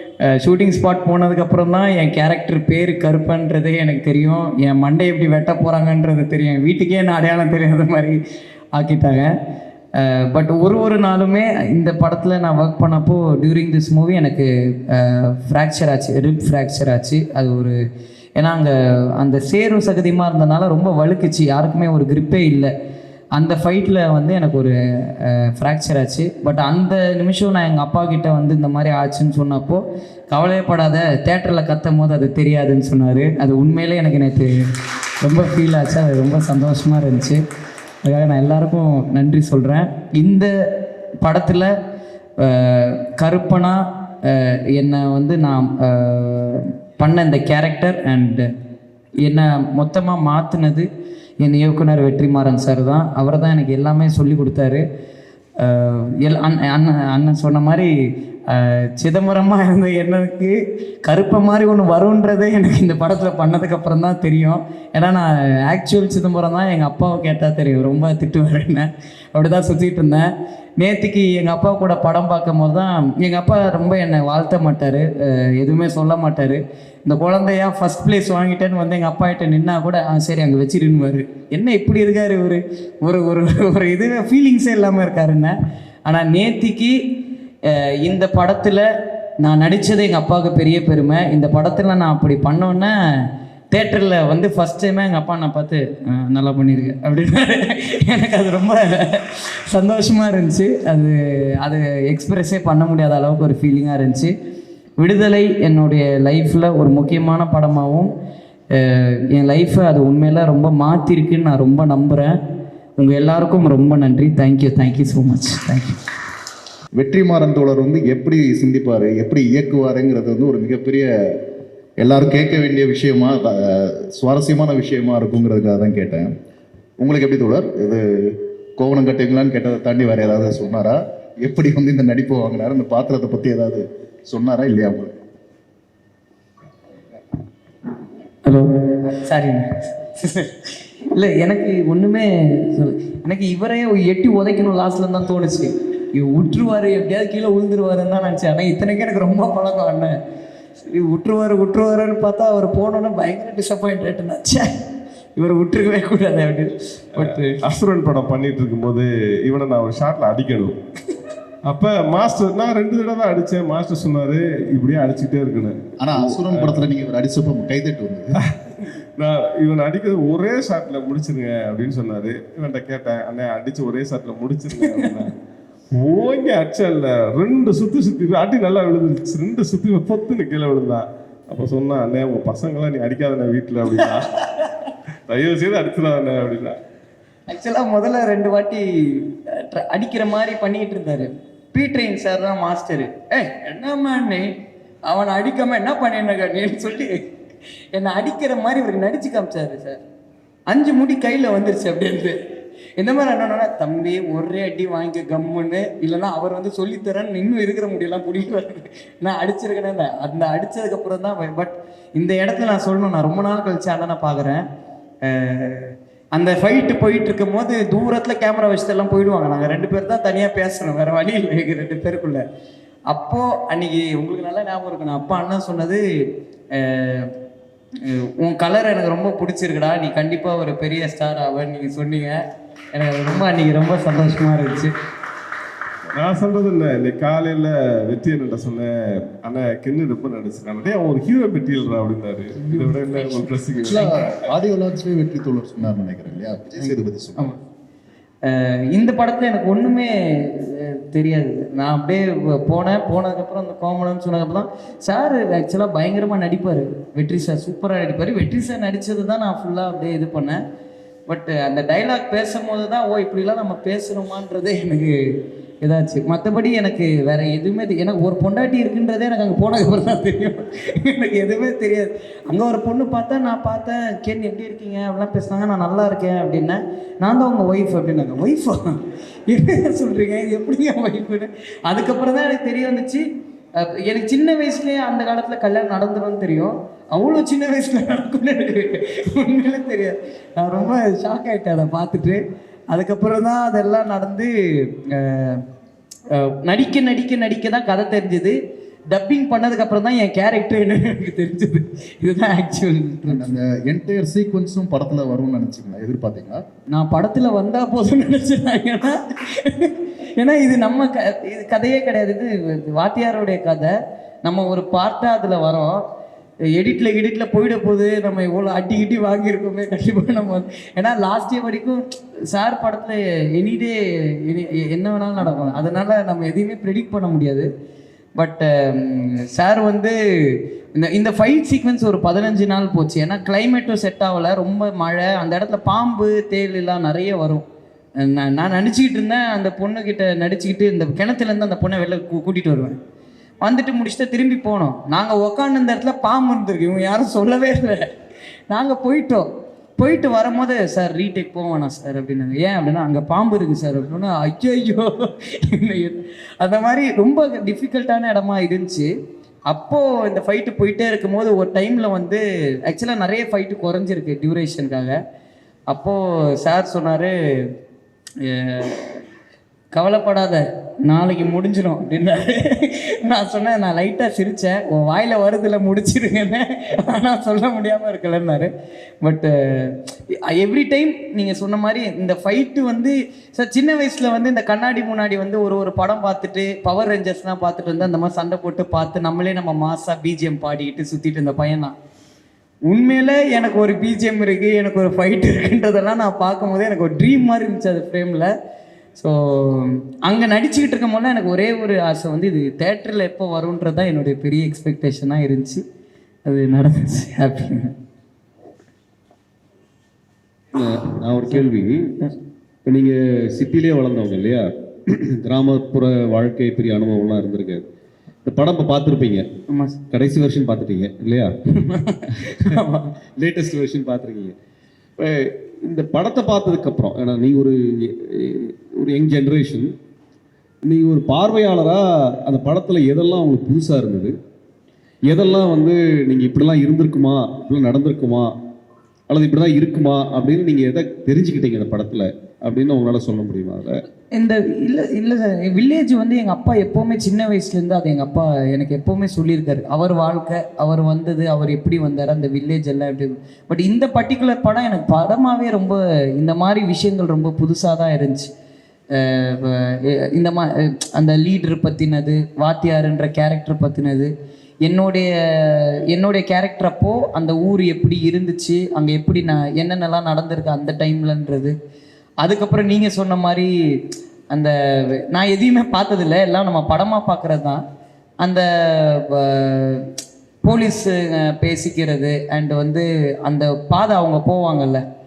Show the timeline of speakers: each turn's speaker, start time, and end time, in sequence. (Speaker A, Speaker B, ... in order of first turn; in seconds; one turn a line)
Speaker A: 0.3-8.2
Speaker A: 8.7-9.3
Speaker A: 9.9-17.8
Speaker A: 18.4-22.7
Speaker A: 23.4-34.5
Speaker A: 35.2-37.4
Speaker A: 38.0-40.5
Speaker A: 41.2-41.7
Speaker A: 42.4-48.5
Speaker A: 49.2-50.9
Speaker A: 51.4-54.8
Speaker A: 55.6-57.9
Speaker A: 58.5-70.3
Speaker A: 70.8-85.5
Speaker A: 86.1-86.9
Speaker A: 87.7-88.9
Speaker A: 89.4-92.9
Speaker A: 93.7-104.3
Speaker A: 105.0-108.1
Speaker A: 108.7-112.3
Speaker A: 113.0-116.0
Speaker B: 117.0-121.4
Speaker B: 122.0-126.3
Speaker B: 127.0-135.2
Speaker A: 138.4-150.2
Speaker A: 150.9-154.7
Speaker A: 155.3-157.6
Speaker C: 157.2-160.8
Speaker C: 161.7-166.8
Speaker B: 166.0-168.3
Speaker C: 169.2-175.3
Speaker A: 174.8-175.1
Speaker C: 175.9-184.4
Speaker C: 185.3-186.8
Speaker A: 187.5-194.5
Speaker A: 195.1-197.2
Speaker A: 197.9-200.0
Speaker A: 200.7-202.4
Speaker A: 203.0-214.6
Speaker A: 215.2-222.4
Speaker A: 223.1-226.0
Speaker A: 226.7-227.3
Speaker A: 228.0-232.4
Speaker A: 232.9-234.9
Speaker C: 236.1-244.0
Speaker A: 242.6-244.2
Speaker B: 243.8-247.5
Speaker A: 246.8-247.6
Speaker A: 248.4-260.6
Speaker A: 261.3-265.1
Speaker A: 265.8-283.2
Speaker A: 283.8-295.6
Speaker A: 296.3-298.6
Speaker A: 299.1-303.6
Speaker B: 303.3-306.6
Speaker A: 306.9-313.9
Speaker A: 314.4-316.0
Speaker A: 316.8-327.7
Speaker A: 328.4-337.6
Speaker A: 338.2-343.0
Speaker A: 343.6-348.0
Speaker A: 348.7-349.4
Speaker A: 350.0-359.1
Speaker A: 359.7-365.1
Speaker A: 365.9-367.3
Speaker A: 368.4-369.2
Speaker A: 369.9-378.7
Speaker A: 379.2-391.9
Speaker A: 392.9-398.5
Speaker A: 399.2-405.8
Speaker A: 406.4-407.9
Speaker D: 410.8-412.1
Speaker D: 412.9-417.8
Speaker D: 418.4-419.4
Speaker A: 419.7-419.9
Speaker D: 420.1-421.5
Speaker A: 421.8-423.1
Speaker D: 422.5-422.8
Speaker D: 423.4-424.5
Speaker D: 425.2-429.9
Speaker D: 430.9-434.3
Speaker D: 435.3-438.5
Speaker D: 439.3-443.9
Speaker A: 444.3-458.5
Speaker A: 459.1-464.3
Speaker A: 464.8-471.7
Speaker A: 472.4-473.7
Speaker A: 474.5-477.8
Speaker A: 478.4-480.1
Speaker A: 480.6-485.0